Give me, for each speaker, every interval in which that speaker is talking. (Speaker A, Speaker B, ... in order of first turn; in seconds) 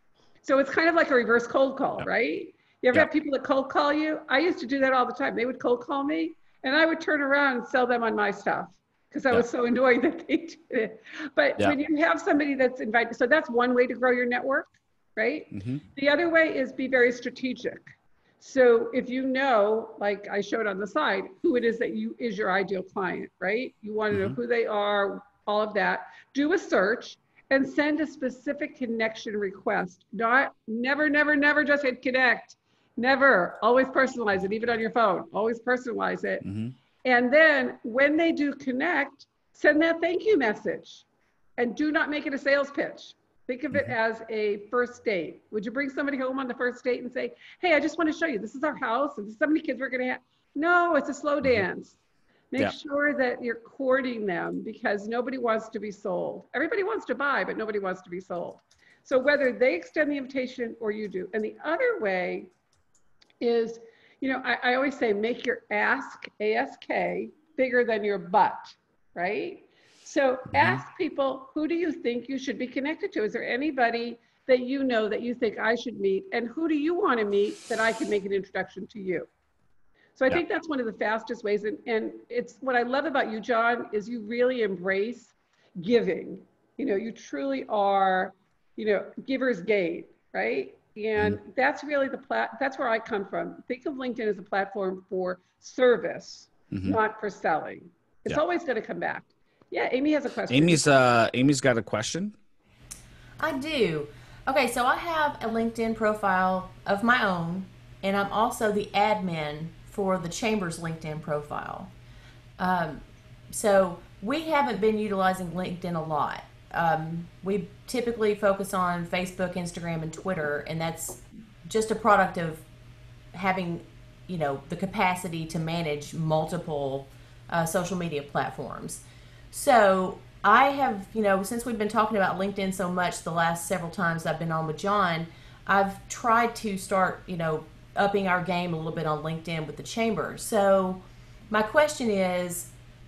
Speaker A: 0.4-17.9, 18.4-36.4, 37.0-41.1, 41.6-52.0, 52.5-62.5, 63.4-79.3, 80.2-100.8
Speaker B: 15.5-15.8, 24.1-24.4, 36.4-36.7, 96.7-97.0, 100.5-102.3
Speaker C: 103.4-111.9, 112.6-122.6, 123.3-142.7